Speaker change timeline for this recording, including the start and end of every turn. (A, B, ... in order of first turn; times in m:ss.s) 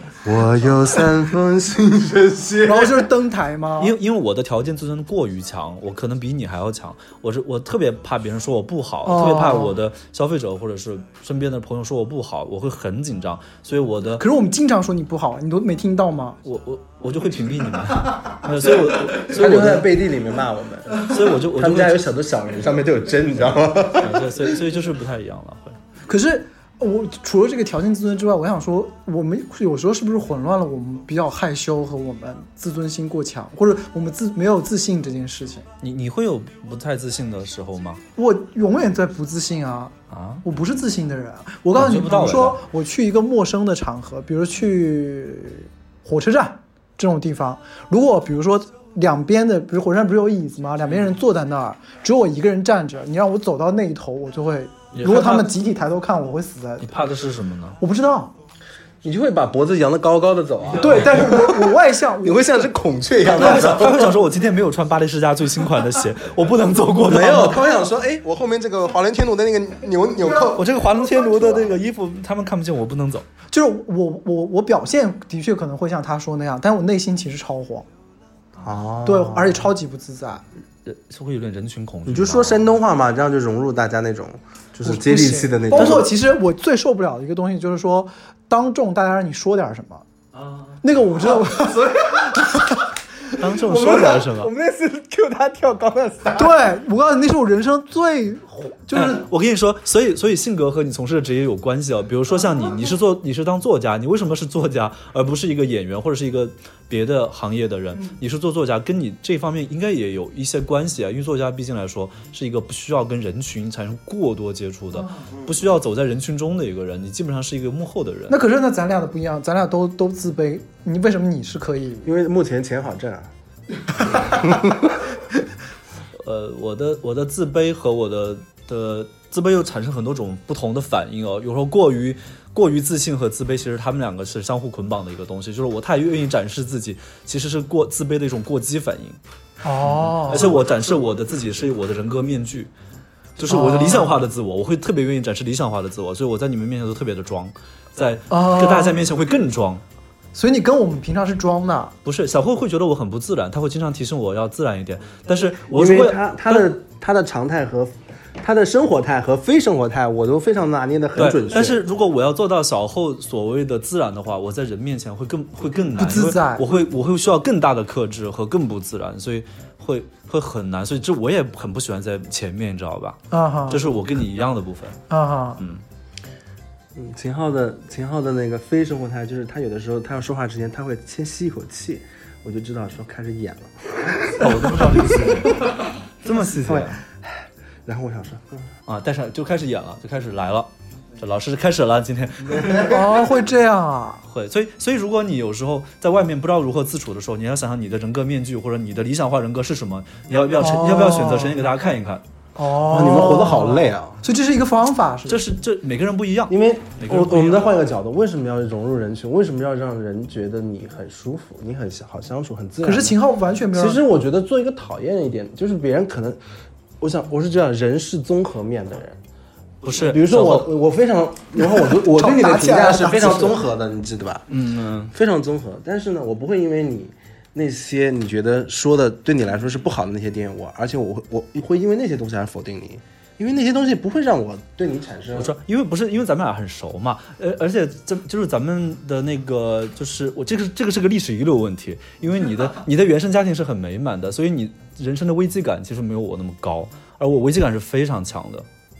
0:00.2-0:03.1 A
0:02.6-0:04.0 B
0:03.8-0:14.2 C
0:09.0-0:09.8 B
0:14.2-0:16.4 B
0:16.4-0:19.9 C
0:19.2-0:24.3 A
0:21.0-0:22.0 C
0:24.0-0:25.8 C
0:26.1-0:35.7 B
0:35.8-0:38.0 C
0:38.2-0:56.9 B
0:40.1-0:40.4 C
0:41.8-0:42.6 C
0:54.9-0:55.6 C
0:56.8-0:57.8 C
0:57.8-0:58.3 B
0:59.0-1:04.1 A
1:00.7-1:01.2 C
1:00.8-1:02.6 B
1:03.3-1:07.6 C
1:07.0-1:10.7 A
1:10.2-1:10.6 B
1:10.5-1:13.3 C
1:11.2-1:11.6 B
1:13.5-1:17.9 B
1:18.6-1:19.6 A
1:19.0-1:20.4 B
1:20.8-1:22.7 C
1:22.1-1:26.1 A
1:24.8-1:30.0 B
1:30.4-1:30.8 C
1:30.8-1:32.6 B
1:31.3-1:32.5 A
1:33.4-1:34.5 C
1:33.4-1:36.6 A
1:36.4-1:39.3 B
1:38.9-1:58.4 C
1:58.3-2:02.0 B
2:02.0-2:03.3 A
2:04.2-2:04.9 A
2:06.2-2:19.2 C
2:19.6-2:20.6 B
2:19.8-2:22.7 C
2:23.4-2:29.8 C
2:23.5-2:24.2 B
2:28.3-2:29.0 B
2:30.3-2:31.9 B
2:32.0-2:36.7 C
2:35.7-2:41.8 A
2:41.2-2:55.0 C
2:46.0-2:46.6 B
2:53.3-2:53.8 B
2:55.1-2:55.6 B
2:57.0-3:05.2 A
3:04.4-3:07.0 C
3:06.6-3:08.7 A
3:08.9-3:13.0 C
3:12.8-3:14.2 B
3:14.3-3:22.2 C
3:20.6-3:21.6 B
3:22.6-3:25.4 B
3:22.9-3:24.2 A
3:25.3-3:27.7 C
3:26.5-3:33.2 A
3:32.8-3:34.0 B
3:33.7-3:36.4 A
3:37.0-3:39.2 A
3:39.8-3:40.7 C
3:40.0-3:44.4 A
3:41.6-3:43.6 B
3:44.5-3:45.1 C
3:45.1-3:55.5 A
3:55.4-4:08.7 C